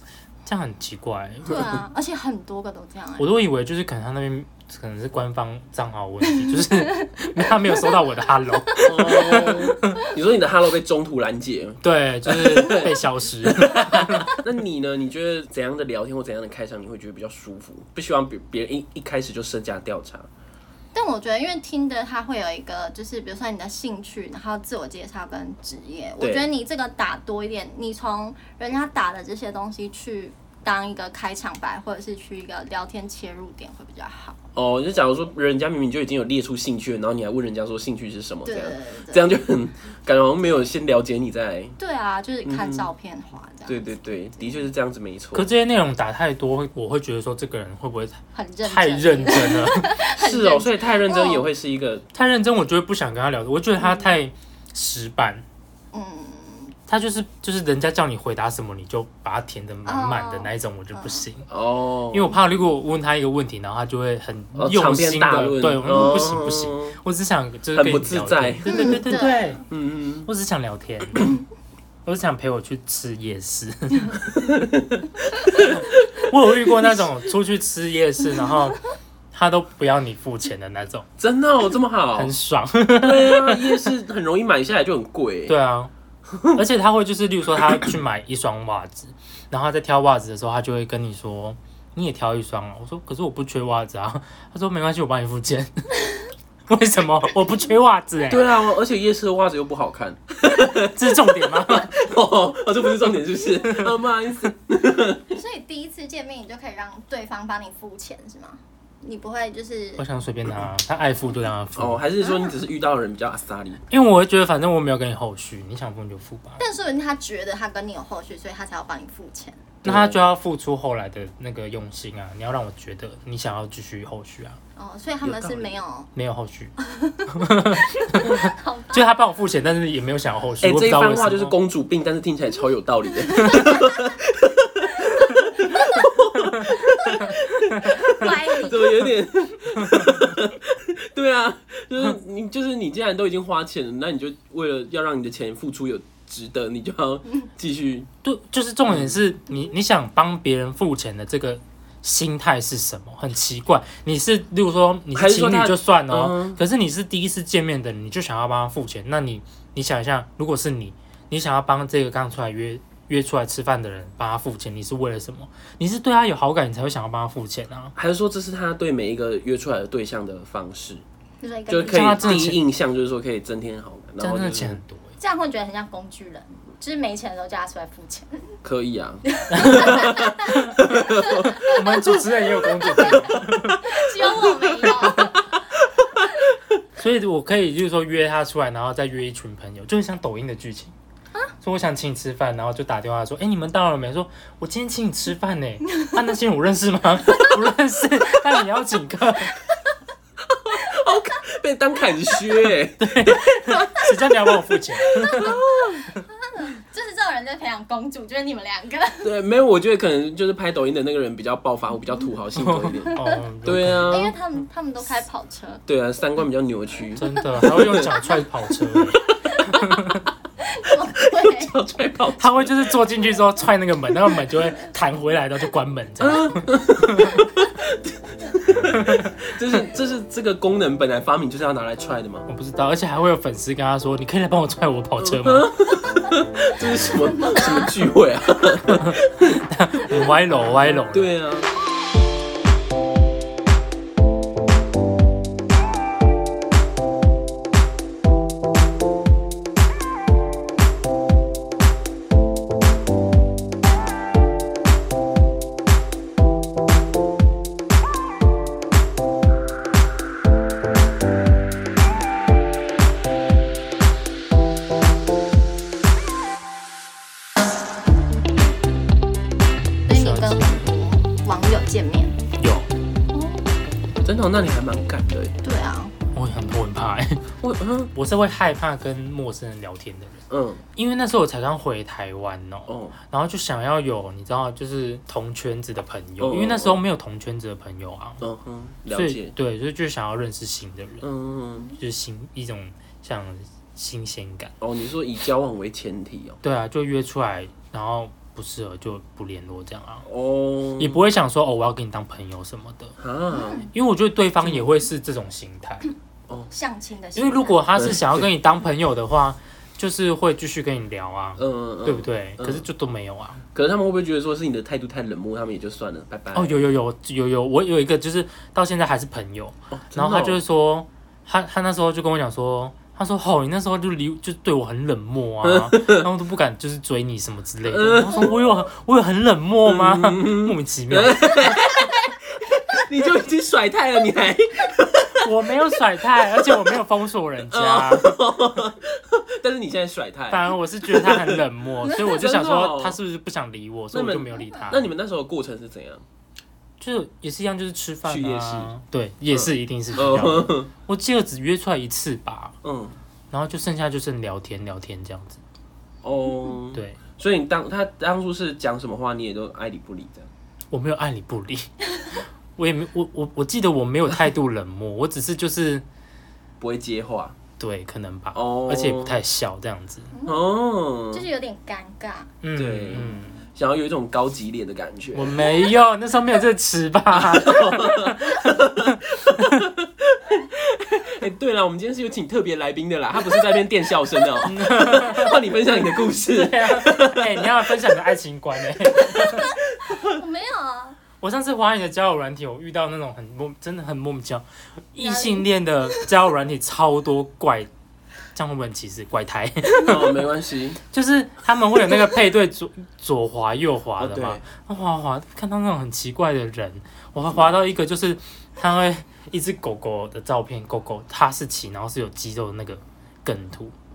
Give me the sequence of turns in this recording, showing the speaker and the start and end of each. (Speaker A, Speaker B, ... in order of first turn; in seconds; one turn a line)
Speaker A: 0.5-1.6
Speaker B: 1.4-3.3
Speaker A: 3.2-10.0
Speaker B: 6.3-8.0
Speaker B: 8.6-9.5
Speaker C: 8.8-20.3
Speaker A: 11.8-14.4
Speaker B: 20.9-34.4
Speaker C: 26.2-26.5
Speaker C: 34.5-41.8
Speaker B: 38.5-39.3
Speaker B: 41.8-44.5
Speaker C: 42.5-42.9
Speaker C: 43.7-45.5
Speaker A: 45.3-49.9
Speaker B: 48.3-51.5
Speaker C: 50.2-52.1
Speaker A: 52.1-55.4
Speaker B: 55.9-56.8
Speaker A: 56.9-61.5
Speaker B: 59.9-61.2
Speaker C: 61.5-62.4
Speaker A: 62.1-69.6
Speaker C: 64.5-67.0
Speaker C: 67.8-69.2
Speaker B: 68.7-69.6
Speaker C: 69.7-70.3
Speaker A: 70.3-71.3
Speaker A: 72.0-74.2
Speaker C: 74.3-76.0
Speaker A: 75.6-78.8
Speaker A: 79.3-81.1
Speaker C: 81.2-82.3
Speaker A: 82.2-83.8
Speaker C: 83.0-85.5
Speaker A: 85.5-85.9
Speaker C: 86.3-86.6
Speaker A: 86.5-98.5
Speaker C: 87.6-87.9
Speaker C: 98.3-105.3
Speaker A: 100.8-102.0
Speaker A: 103.6-104.0
Speaker B: 105.3-110.0
Speaker A: 110.0-112.0
Speaker C: 111.8-113.8
Speaker A: 113.9-116.6
Speaker B: 116.6-119.6
Speaker C: 119.8-120.2
Speaker A: 119.8-124.6
Speaker B: 124.8-126.1
Speaker C: 125.2-125.8
Speaker A: 126.2-126.7
Speaker B: 126.8-129.1
Speaker A: 127.3-131.5
Speaker C: 130.6-148.1
Speaker B: 133.3-133.9
Speaker B: 135.0-136.1
Speaker B: 136.6-139.1
Speaker A: 139.9-140.3
Speaker A: 148.2-167.9
Speaker C: 148.9-149.2
Speaker C: 155.1-156.6
Speaker C: 167.9-171.0
Speaker B: 171.4-172.5
Speaker C: 171.7-174.8
Speaker A: 171.8-172.6
Speaker A: 174.2-175.2
Speaker B: 175.2-178.6
Speaker C: 178.6-181.7
Speaker B: 179.3-185.5
Speaker A: 179.5-180.8
Speaker A: 181.5-183.9
Speaker C: 184.3-185.4
Speaker A: 187.0-190.9
Speaker A: 191.6-199.6
Speaker B: 195.9-196.1
Speaker C: 200.4-204.5
Speaker A: 203.0-205.6
Speaker B: 205.1-205.6
Speaker C: 205.2-206.1
Speaker B: 206.3-209.3
Speaker C: 209.2-214.3
Speaker A: 212.6-214.3
Speaker B: 214.1-215.8
Speaker C: 215.9-218.2
Speaker A: 217.2-220.3
Speaker B: 218.0-218.3
Speaker C: 218.7-219.8
Speaker B: 219.2-219.8
Speaker B: 220.6-221.7
Speaker C: 221.2-222.9
Speaker A: 222.4-227.5
Speaker C: 226.2-232.5
Speaker A: 228.9-229.3
Speaker A: 232.5-235.7
Speaker C: 235.2-239.6
Speaker B: 237.3-237.9
Speaker A: 239.0-241.3
Speaker C: 241.1-241.7
Speaker B: 270.1-272.4
Speaker A: 270.1-270.8
Speaker A: 272.6-272.9
Speaker B: 273.3-273.7
Speaker C: 274.2-275.6
Speaker B: 275.6-276.1
Speaker A: 276.3-277.5
Speaker C: 277.6-278.1
Speaker A: 278.1-280.4
Speaker C: 280.5-280.8
Speaker A: 281.0-288.4
Speaker C: 282.9-283.2
Speaker C: 286.4-287.0
Speaker C: 288.4-289.5
Speaker A: 289.1-291.3
Speaker C: 291.2-291.9
Speaker A: 292.0-294.7
Speaker C: 294.8-296.6
Speaker A: 296.6-300.3
Speaker C: 300.3-301.2
Speaker A: 301.0-303.1
Speaker C: 303.2-303.9
Speaker B: 303.5-303.9
Speaker A: 303.9-306.0
Speaker C: 304.6-304.9
Speaker B: 306.7-307.9
Speaker A: 307.4-313.6
Speaker C: 308.0-308.5
Speaker C: 311.6-312.9
Speaker C: 313.8-316.8
Speaker A: 316.5-331.8
Speaker C: 319.9-320.6
Speaker C: 325.6-326.3
Speaker C: 327.9-328.7
Speaker C: 329.9-335.5
Speaker A: 335.4-338.4
Speaker C: 336.4-337.0
Speaker C: 337.7-341.6
Speaker A: 340.5-345.1
Speaker C: 342.2-343.2
Speaker C: 344.1-346.2
Speaker A: 347.0-352.8
Speaker C: 348.2-348.9
Speaker C: 349.5-350.9
Speaker C: 352.8-353.2
Speaker A: 353.5-355.6
Speaker C: 356.2-360.5
Speaker A: 356.9-357.2
Speaker A: 360.9-361.9
Speaker A: 362.8-366.0
Speaker C: 366.8-367.6
Speaker A: 367.8-370.3
Speaker C: 368.5-369.4
Speaker B: 370.3-370.7
Speaker C: 370.5-371.5
Speaker B: 371.3-372.5
Speaker A: 372.6-373.6
Speaker C: 372.8-375.6
Speaker A: 375.4-379.9
Speaker C: 377.3-388.1
Speaker A: 384.6-389.7
Speaker B: 389.1-391.2
Speaker C: 389.5-390.3
Speaker A: 391.4-397.9
Speaker B: 395.2-396.3
Speaker A: 398.6-400.5
Speaker C: 400.0-401.0
Speaker A: 401.1-413.9
Speaker C: 404.2-404.6